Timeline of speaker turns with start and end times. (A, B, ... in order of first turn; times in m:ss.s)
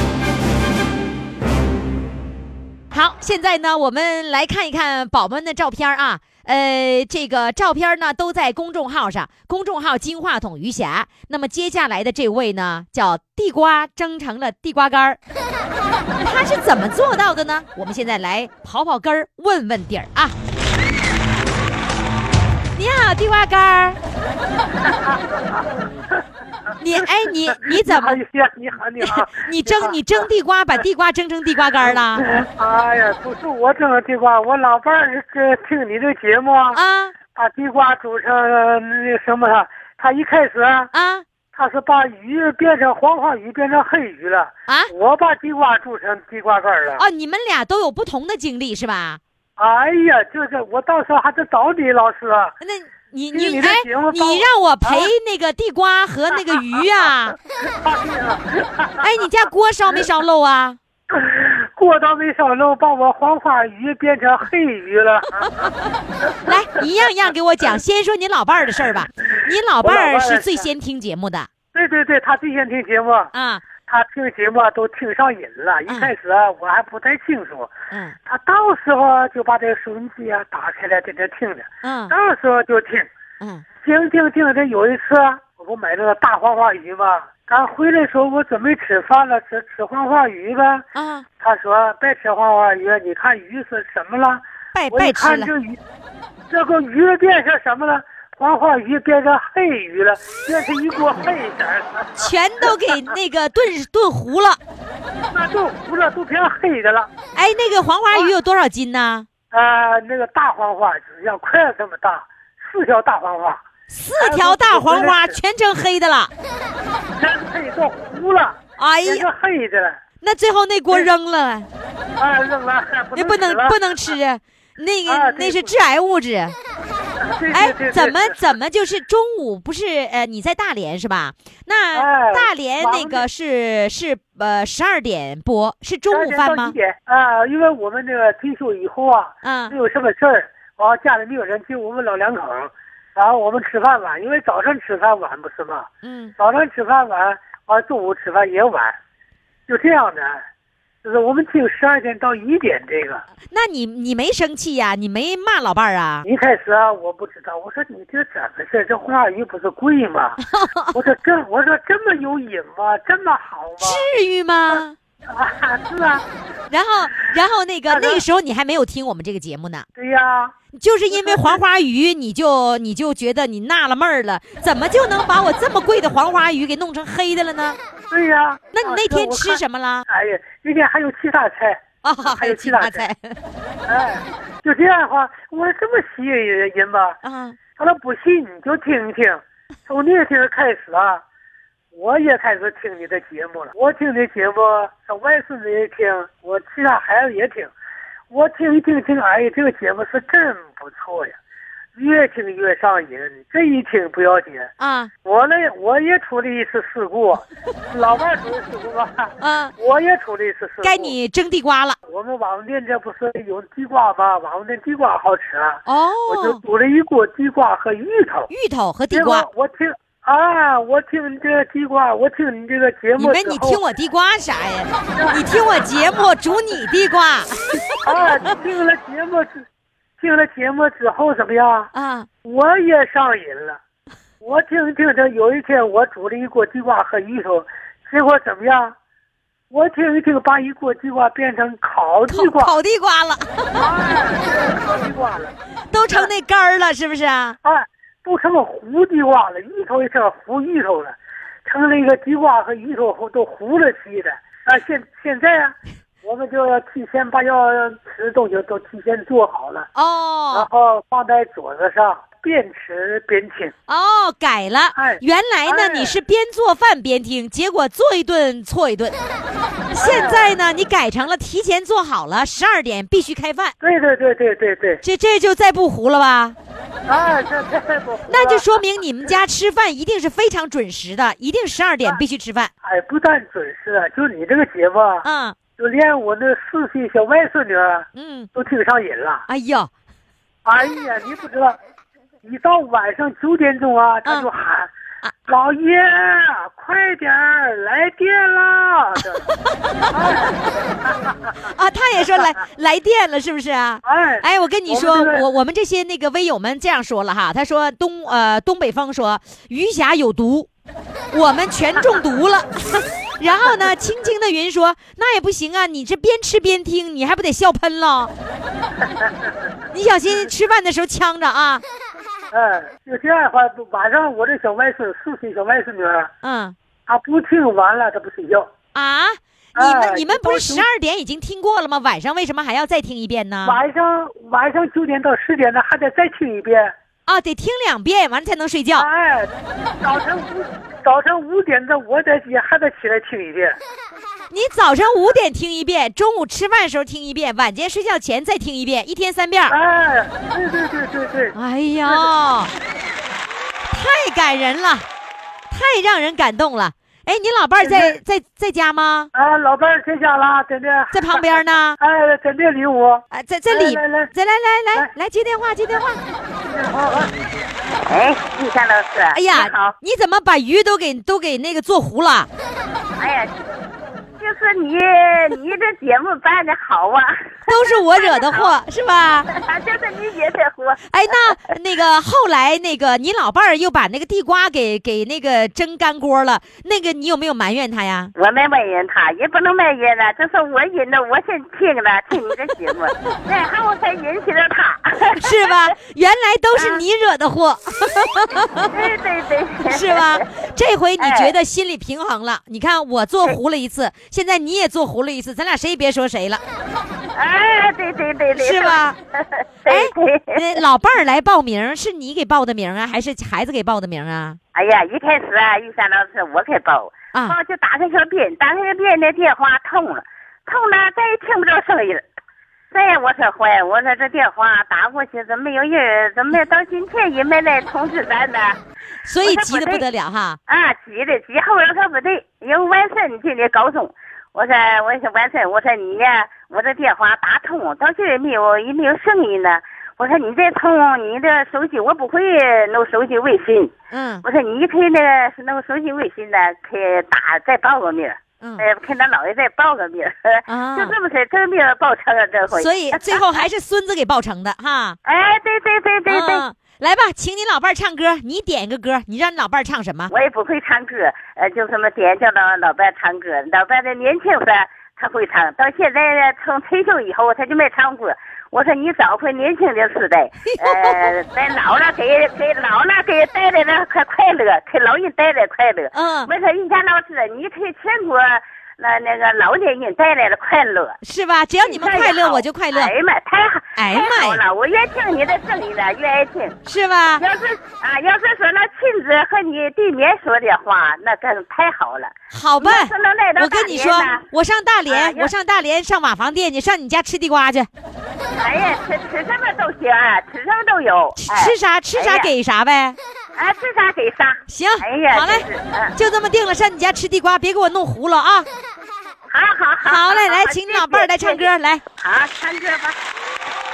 0:02.9-0:15.2 A
0:16.2-0:20.4 A
0:22.8-0:24.0 A
0:24.8-0:25.6 B
0:26.8-0:28.2 A
0:27.5-0:30.2 B
0:29.0-0:32.2 A
0:31.8-0:36.8 B
0:36.7-0:37.2 A
0:37.3-0:40.9 B
0:40.9-0:41.2 A
0:41.5-0:47.0 B
0:47.0-0:49.2 A
0:49.6-0:52.6 B
0:52.6-0:57.4 A
0:53.3-0:55.1 B
0:57.6-0:59.1 B
0:59.0-1:00.8 A
1:01.1-1:05.7 B
1:06.4-1:11.5 A
1:08.8-1:10.7 B
1:11.7-1:13.3 B
1:13.3-1:13.6 A
1:13.9-1:17.7 B
1:15.9-1:16.1 A
1:18.3-1:23.1 B
1:21.8-1:22.1 A
1:23.8-1:30.9 B
1:31.0-1:31.3 A
1:31.4-1:35.8 B
1:34.7-1:35.5 A
1:36.5-1:43.1 B
1:42.2-1:44.6 A
1:45.3-1:47.1 B
1:47.3-1:49.3 A
1:49.5-1:53.6 B
1:53.9-1:56.3 A
1:54.2-1:55.4 B
1:57.2-2:00.0 B
1:58.8-1:59.3 A
2:00.2-2:01.7 A
2:02.2-2:03.8 B
2:03.2-2:06.6 A
2:05.1-2:05.7 B
2:07.2-2:08.6 B
2:07.5-2:16.8 A
2:11.9-2:13.2 B
2:16.1-2:29.0 B
2:19.4-2:19.8 A
2:26.0-2:26.3 A
2:29.7-2:30.4 B
2:31.0-2:33.2 B
2:33.5-2:36.2 A
2:36.2-2:40.4 B
2:40.4-2:41.0 A
2:40.9-2:44.1 B
2:43.8-2:44.9 A
2:44.7-2:46.3 B
2:46.7-2:49.8 A
2:47.9-2:48.2 B
2:50.0-2:50.6 B
2:50.8-2:57.8 A
2:51.1-2:51.6 B
2:58.1-3:03.1 B
2:58.7-3:00.1 A
3:02.0-3:03.4 A
3:03.9-3:07.2 B
3:07.2-3:07.6 A
3:07.8-3:11.2 B
3:11.9-3:17.7 B
3:18.3-3:21.4 B
3:22.0-3:24.7 B
3:24.8-3:25.1 A
3:25.2-3:31.2 B
3:29.4-3:29.7 A
3:30.8-3:32.0 A
3:32.1-3:38.5 B
3:35.9-3:36.6 A
3:38.5-3:39.5 A
3:39.1-3:43.8 B
3:43.2-3:48.6 A
3:45.1-3:46.2 B
3:48.0-3:49.6 B
3:50.2-3:51.9 B
3:51.9-3:52.3 A
3:52.4-3:53.8 B
3:54.4-3:59.0 B
3:59.7-4:02.7 B
4:02.3-4:03.8 A
4:03.8-4:05.6 B
4:05.9-4:07.6 A
4:07.6-4:19.9 B
4:19.9-4:20.7 A
4:20.5-4:23.7 B
4:23.9-4:29.2 A
4:24.9-4:26.2 B
4:29.9-4:33.7 A
4:30.0-4:30.6 B
4:33.8-4:35.0 B
4:35.0-4:36.6 A
4:37.0-4:38.7 B
4:38.3-4:42.7 A
4:42.8-4:45.2 B
4:45.2-4:45.6 A
4:45.8-4:49.4 B
4:48.2-4:48.5 A
4:49.5-4:49.9 A
4:50.6-4:51.8 B
4:52.4-4:54.9 B
4:55.5-4:59.5 B
5:00.1-5:01.7 B
5:01.7-5:10.7 A
5:04.0-5:05.4 B
5:11.3-5:18.3 A
5:13.6-5:14.0 B
5:19.0-5:19.5 B
5:19.9-5:21.8 A
5:22.5-5:26.3 B
5:26.4-5:26.7 A
5:27.1-5:28.7 B
5:28.9-5:33.8 A
5:29.8-5:30.9 B
5:33.6-5:36.9 B
5:37.3-5:39.1 A
5:39.0-5:43.8 B
5:44.5-5:49.8 A
5:49.7-5:52.3 B
5:51.5-5:52.7 A
5:53.9-5:55.1 A
5:55.7-5:59.3 A
5:57.8-5:58.2 B
5:59.3-6:04.3 B
6:01.1-6:02.0 A
6:03.3-6:06.2 A
6:06.6-6:07.3 B
6:08.0-6:09.9 C
6:09.3-6:12.5 A
6:13.2-6:13.5 C
6:14.4-6:18.7 C
6:17.7-6:19.5 A
6:19.5-6:21.0 C
6:21.1-6:28.3 A
6:28.4-6:35.9 C
6:35.4-6:39.1 A
6:36.8-6:37.0 C
6:38.9-6:40.4 C
6:39.8-6:46.6 A
6:41.2-6:41.5 C
6:47.3-6:50.7 C
6:48.6-6:49.2 A
6:49.9-6:54.6 A
6:54.7-7:02.2 C
7:02.9-7:08.8 C
7:09.2-7:10.6 A
7:09.4-7:10.0 C
7:10.7-7:23.9 C
7:24.1-7:24.4 A
7:24.4-7:33.6 C
7:30.7-7:31.2 A
7:32.7-7:35.2 A
7:35.2-7:36.6 C
7:36.2-7:40.3 A
7:40.3-8:01.2 C
7:50.6-7:51.3 A
7:56.1-7:56.5 A
8:01.2-8:03.1 A
8:01.9-8:06.8 C
8:04.0-8:04.6 A
8:06.8-8:07.4 A
8:07.4-8:14.4 C
8:12.5-8:17.9 A
8:15.1-8:15.5 C
8:18.6-8:22.5 C
8:21.4-8:23.2 A
8:23.6-8:26.1 C
8:24.7-8:28.7 A
8:29.5-8:33.2 C
8:30.0-8:32.0 A